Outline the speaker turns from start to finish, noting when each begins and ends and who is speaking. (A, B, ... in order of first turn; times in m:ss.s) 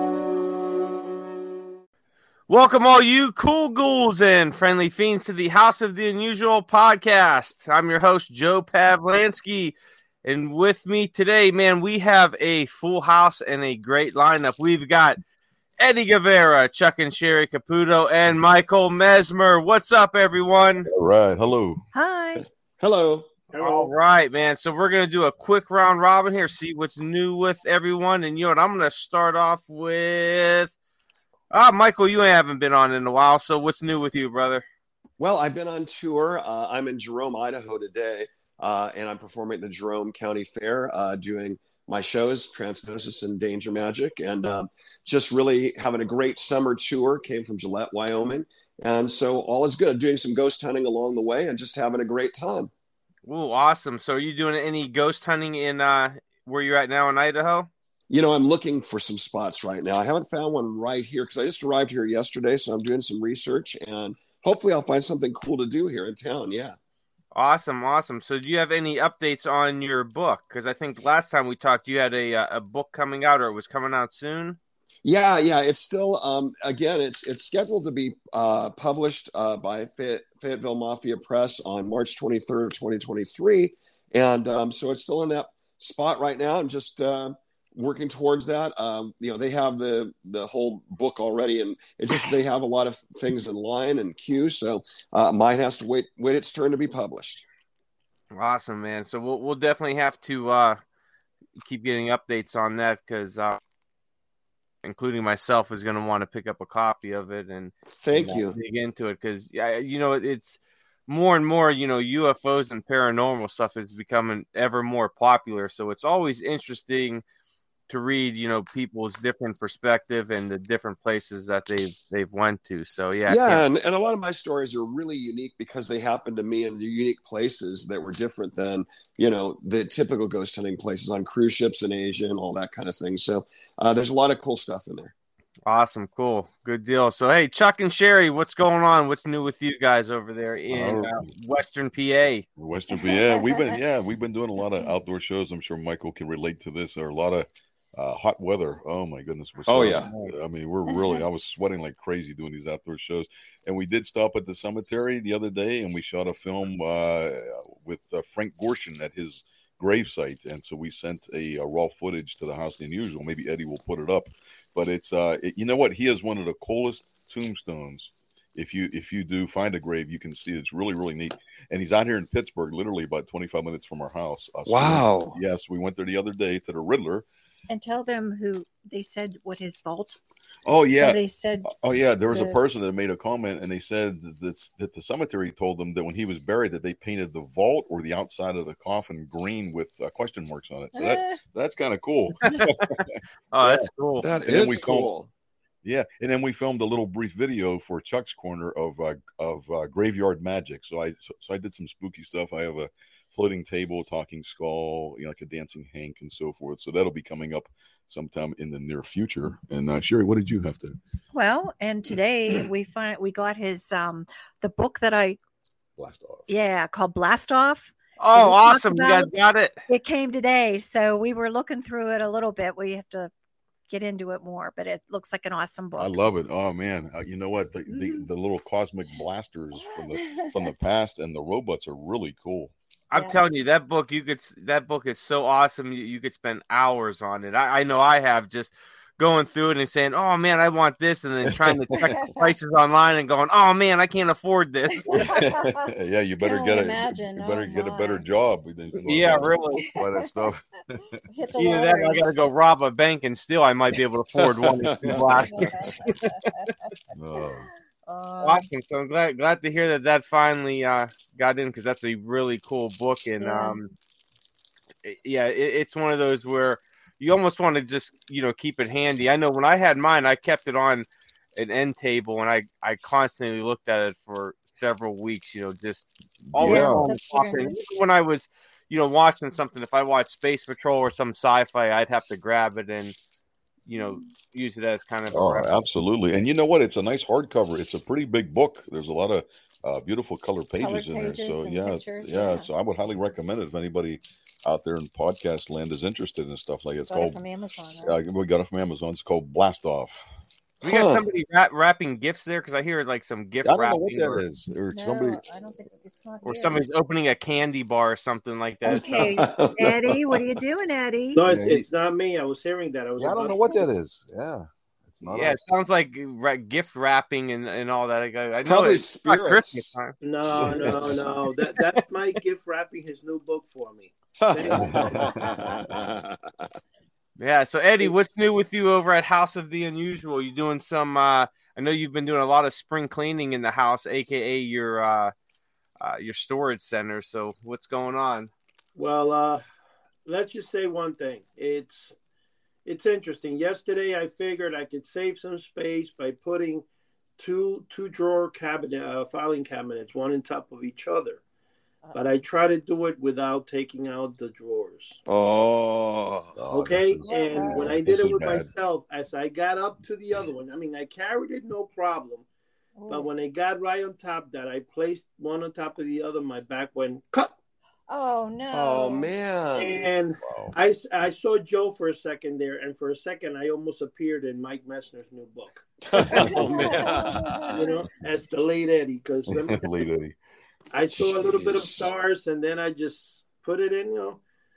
0:02.5-0:15.2 A
0:15.8-0:20.9 A
0:20.9-0:21.8 B
0:21.9-0:22.4 C
0:22.4-0:23.3 D
0:23.5-0:23.9 E
0:23.6-0:30.7 A
0:31.5-0:34.6 A
0:35.2-0:52.7 D
0:53.2-0:57.7 A
0:58.1-1:06.8 D
1:07.3-1:14.6 A
1:15.0-1:37.4 D
1:38.3-1:40.8 A
1:41.6-1:43.6 A
1:44.8-1:57.2 A
1:47.9-1:48.6 D
1:57.9-2:03.6 A
2:03.3-2:15.1 D
2:15.6-2:22.4 A
2:20.7-2:21.3 B
2:22.6-2:57.2 B
2:22.9-2:23.8 C
2:29.7-2:30.1 D
2:30.0-2:30.3 A
2:30.9-2:31.2 C
2:54.6-2:55.4 D
2:57.7-3:00.2 C
3:00.6-3:13.8 B
3:00.9-3:01.7 C
3:02.3-3:02.6 C
3:10.9-3:11.4 C
3:13.5-3:14.3 A
3:14.2-3:15.3 D
3:14.4-3:15.1 B
3:15.8-3:31.0 B
3:31.3-3:35.4 C
3:36.0-3:36.5 B
3:36.5-3:39.3 C
3:38.2-3:39.8 A
3:39.9-3:43.3 C
3:43.9-3:46.2 C
3:46.0-3:52.7 B
3:47.9-3:48.2 C
3:49.8-3:50.7 C
3:53.1-4:05.3 A
3:53.1-3:53.4 C
4:02.1-4:02.5 C
4:04.9-4:05.9 C
4:05.1-4:11.2 B
4:06.4-4:08.3 C
4:09.0-4:09.9 A
4:09.8-4:10.5 C
4:11.3-4:12.3 C
4:11.6-4:16.3 A
4:14.4-4:15.2 D
4:15.0-4:15.4 B
4:15.5-4:16.6 C
4:17.1-4:17.7 B
4:18.0-4:18.6 C
4:18.4-4:23.9 A
4:23.4-4:23.8 C
4:25.0-4:43.2 A
4:36.5-4:37.1 B
4:36.6-4:37.8 C
4:43.8-4:45.9 A
4:45.3-4:57.4 B
4:50.8-4:52.7 C
4:57.0-4:58.2 C
4:58.0-5:00.2 B
5:00.8-5:01.2 D
5:00.8-5:04.4 A
5:03.6-5:05.5 B
5:04.9-5:06.8 C
5:06.4-5:09.1 A
5:08.8-5:11.4 C
5:08.9-5:10.4 D
5:11.3-5:13.9 E
5:11.4-5:11.8 B
5:13.2-5:15.6 B
5:15.2-5:20.1 A
5:18.6-5:19.9 D
5:20.2-5:25.8 E
5:20.5-5:21.3 D
5:24.4-5:26.7 D
5:24.7-5:25.7 B
5:27.4-5:35.3 A
5:36.0-5:38.5 A
5:39.0-5:39.6 E
5:40.2-5:42.1 E
5:42.8-5:46.8 E
5:47.4-5:51.4 E
5:52.0-5:52.3 C
5:52.1-5:55.2 E
5:55.2-5:56.5 D
5:56.6-5:58.7 B
5:56.7-6:02.4 E
5:57.2-5:58.0 C
6:03.0-6:03.3 C
6:03.1-6:07.5 E
6:08.1-6:09.3 C
6:08.7-6:10.1 D
6:09.8-6:17.0 E
6:10.4-6:10.7 B
6:16.1-6:17.4 D
6:16.7-6:18.1 C
6:17.7-6:20.1 E
6:19.5-6:20.4 B
6:20.9-6:24.4 E
6:21.1-6:22.1 B